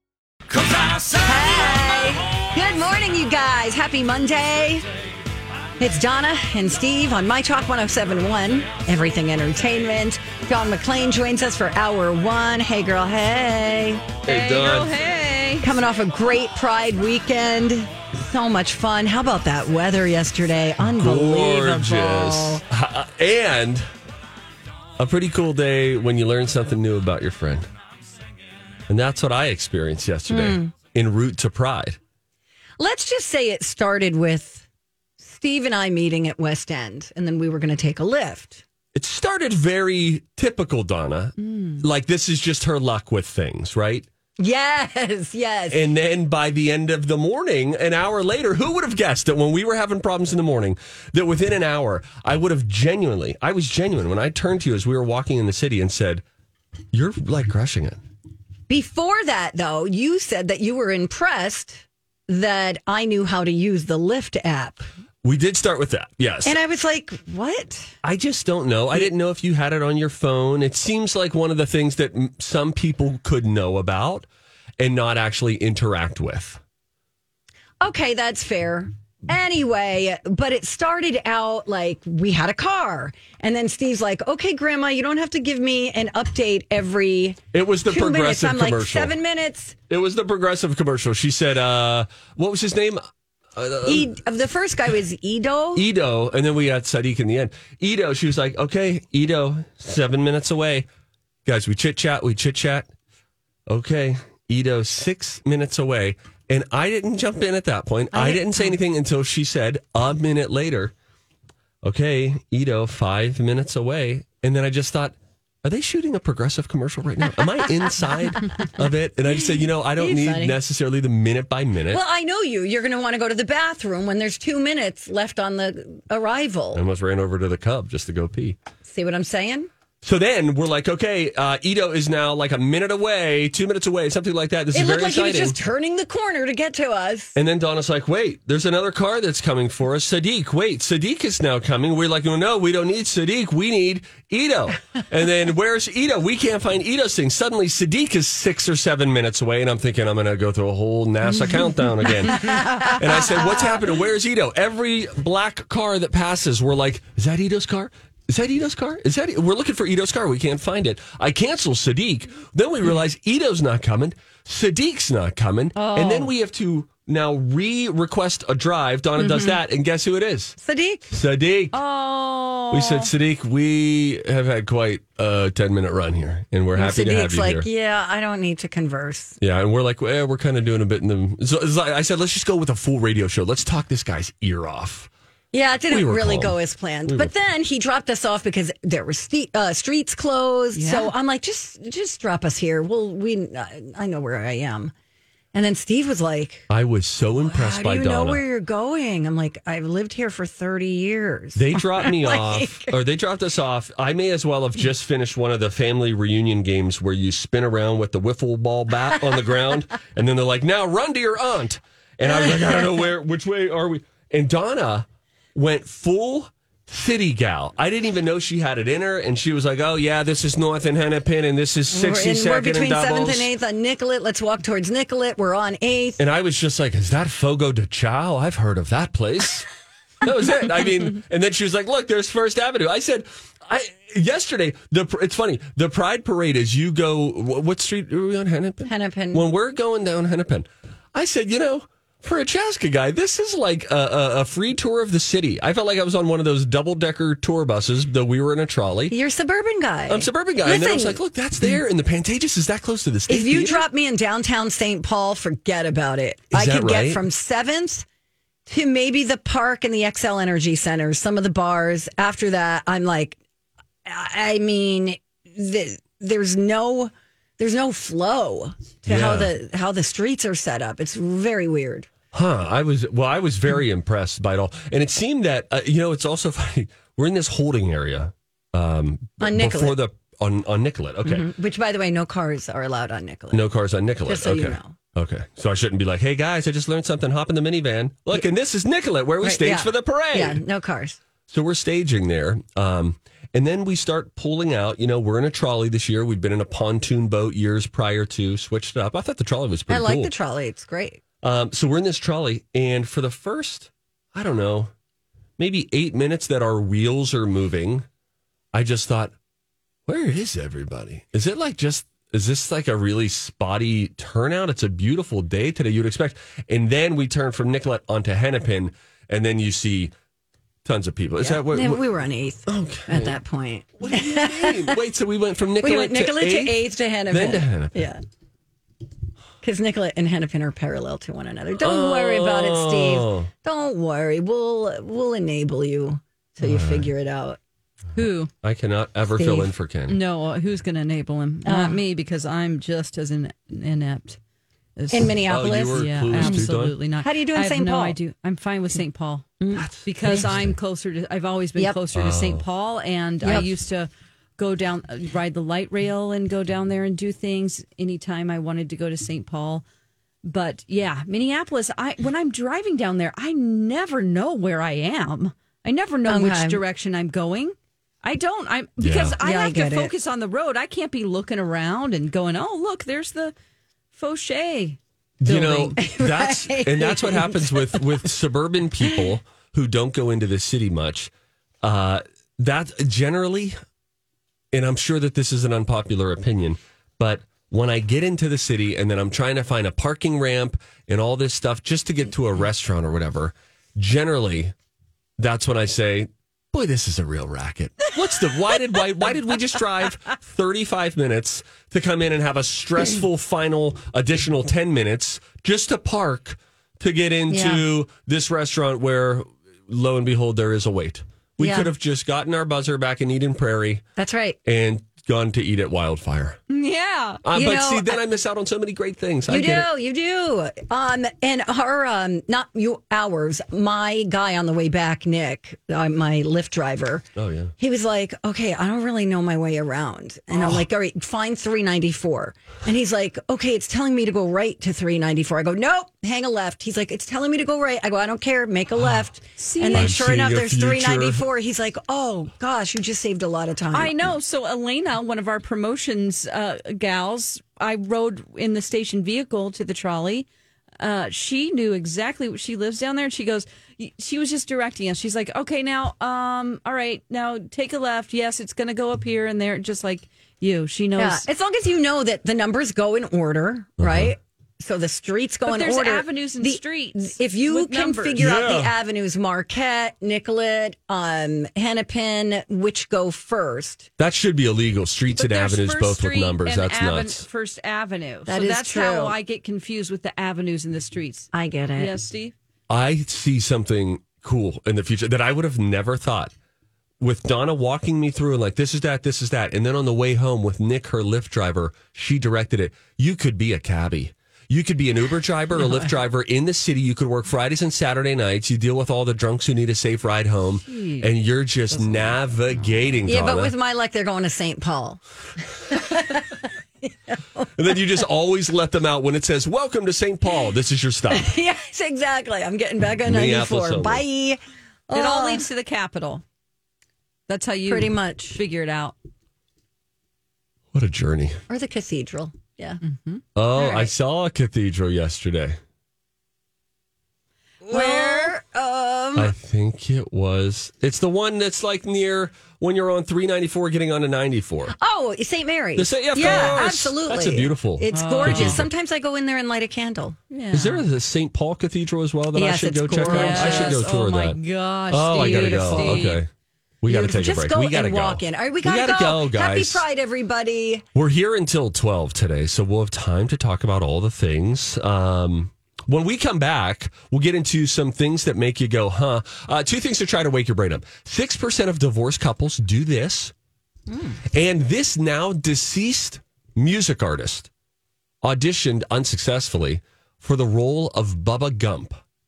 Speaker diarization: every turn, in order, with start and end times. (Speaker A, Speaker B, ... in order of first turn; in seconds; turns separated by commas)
Speaker A: 1.2-4.8, Speaker A: 5.8-14.1, Speaker B: 14.2-14.9, Speaker C: 14.2-15.7, Speaker A: 15.6-22.6, Speaker B: 20.8-23.9, Speaker B: 25.0-27.7, Speaker B: 28.9-32.0, Speaker A: 30.3-30.7, Speaker A: 32.8-34.7, Speaker A: 35.2-38.6, Speaker B: 38.9-44.1, Speaker C: 41.4-41.8, Speaker A: 44.4-45.8, Speaker B: 45.7-56.2, Speaker B: 56.9-58.0, Speaker A: 58.7-64.9, Speaker B: 65.2-66.5, Speaker A: 66.4-67.9, Speaker B: 68.0-74.2, Speaker B: 74.8-76.6, Speaker A: 77.8-89.7, Speaker B: 87.5-89.2, Speaker B: 89.9-93.0, Speaker B: 93.5-94.1, Speaker A: 93.8-95.8, Speaker B: 95.7-100.9, Speaker B: 101.5-102.9, Speaker B: 103.7-110.9, Speaker A: 108.1-108.7, Speaker B: 111.8-122.0, Speaker A: 120.0-120.6, Speaker A: 121.9-126.8, Speaker B: 126.7-128.6, Speaker A: 128.8-129.7, Speaker B: 130.0-135.6, Speaker A: 134.7-137.4, Speaker B: 137.4-170.6, Speaker A: 152.3-153.6, Speaker A: 165.8-166.3, Speaker A: 169.3-169.5, Speaker A: 170.6-171.1, Speaker B: 171.1-171.8, Speaker C: 171.7-173.1, Speaker B: 172.7-177.7, Speaker A: 176.8-179.4, Speaker B: 179.4-185.1, Speaker A: 185.5-194.9, Speaker B: 185.9-187.3, Speaker C: 190.8-191.1, Speaker A: 195.5-196.7, Speaker B: 196.7-198.4, Speaker A: 197.4-202.9, Speaker B: 201.6-223.5, Speaker A: 212.2-213.1, Speaker A: 221.9-226.2, Speaker B: 226.2-229.7, Speaker B: 230.2-249.1, Speaker A: 238.9-239.4, Speaker A: 249.1-251.7, Speaker B: 250.1-253.8, Speaker A: 253.3-258.1, Speaker B: 256.5-257.2, Speaker A: 258.7-263.4, Speaker A: 264.1-272.1, Speaker B: 269.1-269.5, Speaker B: 272.3-281.5, Speaker A: 279.4-280.0, Speaker A: 281.2-283.6, Speaker B: 283.5-290.6, Speaker A: 284.2-284.9, Speaker A: 289.4-291.2, Speaker B: 291.5-300.3, Speaker A: 299.9-301.2, Speaker B: 301.4-304.9, Speaker B: 305.6-308.1, Speaker B: 308.7-309.3, Speaker B: 310.1-320.1, Speaker B: 320.9-322.0, Speaker A: 321.4-325.0, Speaker B: 322.7-323.4, Speaker B: 324.0-328.1, Speaker A: 325.8-328.2, Speaker A: 329.6-337.6, Speaker B: 331.8-333.5, Speaker B: 336.6-337.1, Speaker C: 338.1-338.5, Speaker B: 338.6-340.2, Speaker A: 339.4-339.7, Speaker C: 340.1-344.4, Speaker A: 341.6-342.0, Speaker C: 344.9-359.8, Speaker A: 345.1-346.7, Speaker B: 345.2-346.9, Speaker A: 347.2-348.2, Speaker A: 349.6-350.5, Speaker B: 349.8-350.8, Speaker B: 352.1-352.6, Speaker A: 353.4-353.7, Speaker C: 360.4-373.6, Speaker A: 366.2-366.8, Speaker B: 369.0-369.4, Speaker A: 369.4-370.1, Speaker C: 374.1-375.9, Speaker B: 375.4-381.3, Speaker A: 376.0-378.2, Speaker B: 381.8-383.8, Speaker B: 384.7-394.7, Speaker B: 395.4-414.0, Speaker A: 407.5-407.8, Speaker A: 411.6-411.9, Speaker A: 414.2-414.6, Speaker B: 414.6-416.6, Speaker C: 416.7-417.4, Speaker B: 417.4-419.9, Speaker A: 417.5-418.2, Speaker A: 419.5-427.2, Speaker B: 427.4-427.7, Speaker A: 427.8-444.1, Speaker B: 430.6-430.8, Speaker C: 439.6-440.2, Speaker B: 439.9-441.5, Speaker C: 443.9-450.5, Speaker C: 451.0-461.4, Speaker A: 461.2-474.1, Speaker B: 464.0-464.4, Speaker C: 465.7-468.4, Speaker B: 468.4-468.9, Speaker B: 474.2-477.4, Speaker C: 475.4-482.5, Speaker A: 478.5-479.4, Speaker A: 481.5-482.1, Speaker B: 482.9-486.5, Speaker B: 487.2-503.7, Speaker C: 500.8-501.3, Speaker C: 501.9-503.2, Speaker A: 503.3-505.2, Speaker A: 505.9-506.5, Speaker A: 507.0-507.7, Speaker B: 507.8-511.5, Speaker A: 511.3-515.7, Speaker B: 513.2-514.2, Speaker C: 515.1-516.4, Speaker C: 517.5-519.1, Speaker A: 517.9-518.6, Speaker B: 520.9-521.6, Speaker A: 521.7-523.0, Speaker C: 523.0-523.4, Speaker B: 523.5-525.8, Speaker A: 523.8-524.1, Speaker C: 527.9-528.5, Speaker A: 527.9-529.5, Speaker B: 529.4-534.9, Speaker A: 535.0-540.4, Speaker B: 536.0-538.9, Speaker C: 536.4-536.8, Speaker C: 538.1-538.9, Speaker C: 540.5-541.0, Speaker B: 540.7-544.6, Speaker A: 542.5-544.0, Speaker C: 543.2-546.4, Speaker B: 545.1-546.5, Speaker A: 545.3-546.3, Speaker B: 547.0-550.0, Speaker A: 547.1-551.0, Speaker B: 551.1-563.5, Speaker A: 564.1-564.4, Speaker B: 564.5-567.7, Speaker B: 568.4-572.2